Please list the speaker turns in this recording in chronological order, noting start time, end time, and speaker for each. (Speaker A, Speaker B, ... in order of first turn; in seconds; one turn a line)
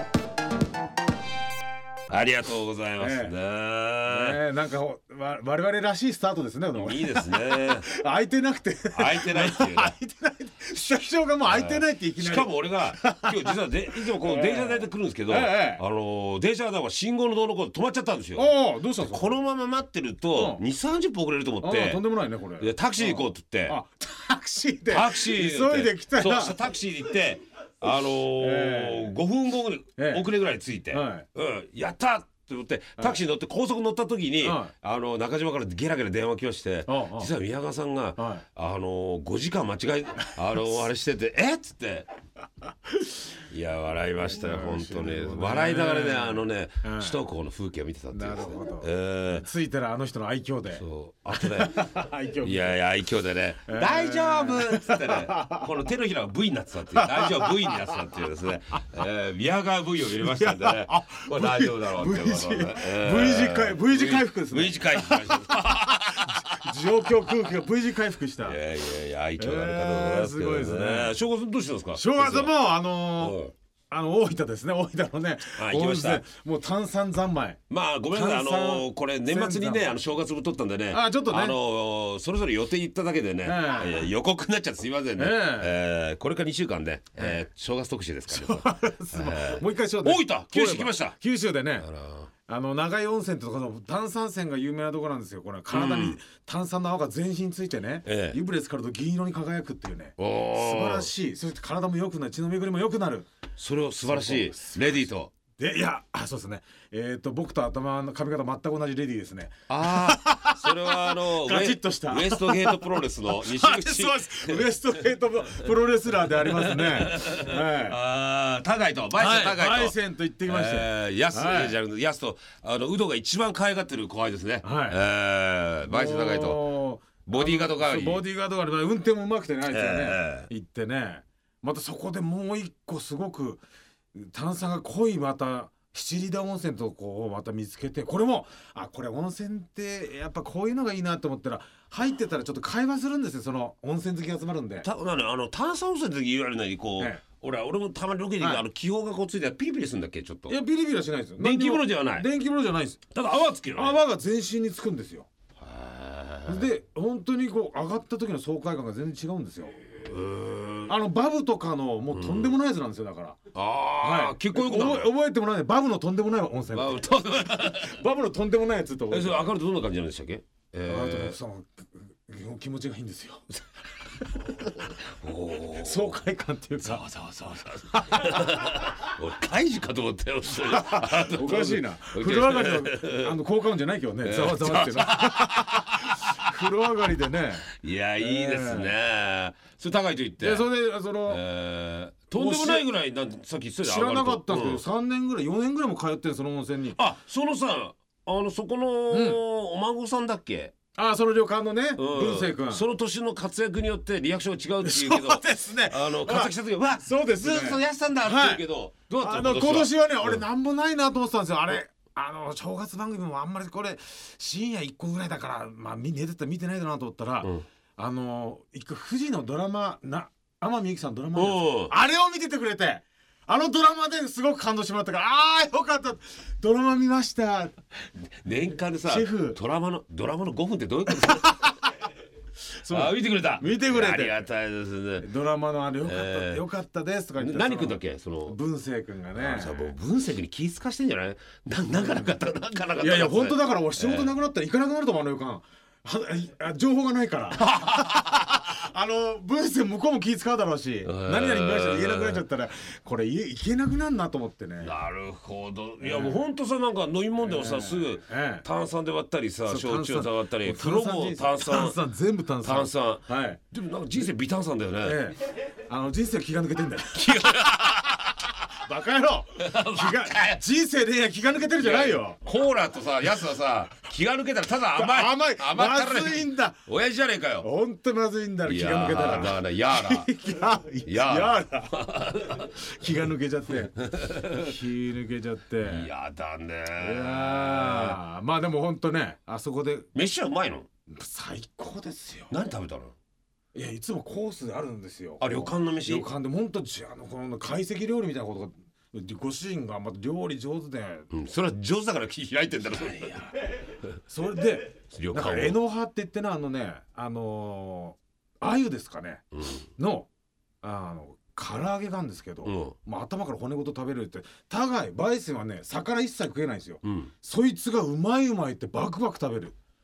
Speaker A: 2.1-4.4
Speaker B: 3.0-3.3
Speaker B: 4.1-15.8
Speaker A: 6.8-7.8
Speaker A: 8.9-9.9
Speaker A: 11.4-22.0
Speaker B: 18.3-19.4
Speaker B: 20.3-20.6
Speaker B: 21.6-26.6
Speaker A: 22.6-23.8
Speaker A: 24.9-42.1
Speaker B: 27.9-29.1
Speaker B: 30.0-30.2
Speaker B: 30.9-31.3
Speaker B: 34.4-34.7
Speaker B: 36.9-37.3
Speaker B: 38.2-38.4
Speaker A: 43.5-49.4
Speaker B: 44.3-47.2
Speaker B: 48.1-52.8
Speaker A: 50.7-51.9
Speaker A: 52.4-66.6
Speaker B: 53.7-55.7
Speaker B: 56.9-58.0
Speaker B: 60.2-68.6
Speaker A: 68.4-72.6
Speaker B: 69.4-71.2
Speaker B: 71.9-73.4
Speaker A: 73.2-73.5
Speaker B: 73.9-79.9
Speaker A: 75.6-76.2
Speaker A: 77.7-91.2
Speaker B: 80.9-81.6
Speaker B: 83.4-84.1
Speaker B: 85.2-85.7
Speaker B: 87.2-87.4
Speaker B: 88.3-91.9
Speaker A: 91.8-92.3
Speaker B: 92.5-103.3
Speaker A: 95.7-96.2
Speaker A: 98.0-98.4
Speaker A: 100.2-101.1
Speaker A: 103.6-105.3
Speaker B: 104.0-104.9
Speaker B: 105.6-118.0
Speaker A: 109.7-115.0
Speaker A: 116.3-126.7
Speaker B: 119.2-121.7
Speaker B: 124.6-125.0
Speaker B: 125.8-133.6
Speaker A: 127.3-128.2
Speaker A: 129.7-130.5
Speaker B: 134.1-144.9
Speaker A: 144.8-150.6
Speaker B: 148.4-148.6
Speaker B: 150.5-153.0
Speaker A: 151.4-152.3
Speaker A: 153.1-154.0
Speaker B: 153.7-155.3
Speaker A: 155.6-156.7
Speaker B: 156.4-159.8
Speaker A: 160.0-160.9
Speaker B: 160.9-163.4
Speaker A: 162.1-162.6
Speaker A: 163.5-165.1
Speaker B: 164.0-169.5
Speaker A: 166.7-168.0
Speaker A: 169.1-171.3
Speaker B: 170.9-173.4
Speaker A: 174.9-176.2
Speaker B: 175.8-177.1
Speaker A: 176.8-183.3
Speaker B: 177.9-178.4
Speaker B: 180.5-187.7
Speaker A: 184.2-186.5
Speaker A: 187.7-190.7
Speaker B: 188.2-188.9
Speaker B: 190.4-191.4
Speaker A: 191.3-194.8
Speaker B: 192.3-192.8
Speaker B: 193.8-197.0
Speaker A: 196.9-200.7
Speaker B: 199.1-199.4
Speaker B: 200.9-202.8
Speaker A: 201.9-210.4
Speaker B: 204.8-208.6
Speaker B: 209.2-227.8
Speaker A: 221.3-221.9
Speaker A: 228.4-231.7
Speaker B: 229.0-229.6
Speaker B: 231.3-231.5
Speaker B: 232.7-234.4
Speaker A: 232.9-235.3
Speaker B: 235.2-239.9
Speaker A: 236.0-236.7
Speaker A: 237.4-238.6
Speaker A: 239.3-244.3
Speaker B: 242.0-242.3
Speaker B: 243.0-254.9
Speaker A: 247.7-248.4
Speaker A: 251.0-252.4
Speaker A: 254.8-262.0
Speaker B: 256.0-256.4
Speaker B: 257.4-258.6
Speaker B: 259.6-263.6
Speaker A: 262.6-265.3
Speaker B: 265.0-267.3
Speaker A: 267.1-268.5
Speaker B: 268.8-272.4
Speaker A: 269.6-270.6
Speaker A: 271.8-277.7
Speaker B: 274.9-276.8
Speaker B: 277.6-286.1
Speaker A: 278.6-280.3
Speaker A: 281.0-282.7
Speaker A: 284.1-284.7
Speaker A: 285.8-288.2
Speaker B: 287.0-290.1
Speaker A: 290.1-290.9
Speaker B: 291.1-292.5
Speaker A: 292.5-293.1
Speaker B: 293.7-301.3
Speaker A: 295.4-296.3
Speaker A: 301.3-303.5
Speaker B: 304.2-309.4
Speaker A: 305.1-305.8
Speaker A: 309.6-309.8
Speaker B: 310.0-310.3
Speaker B: 310.8-319.7
Speaker A: 312.6-312.9
Speaker A: 317.0-317.3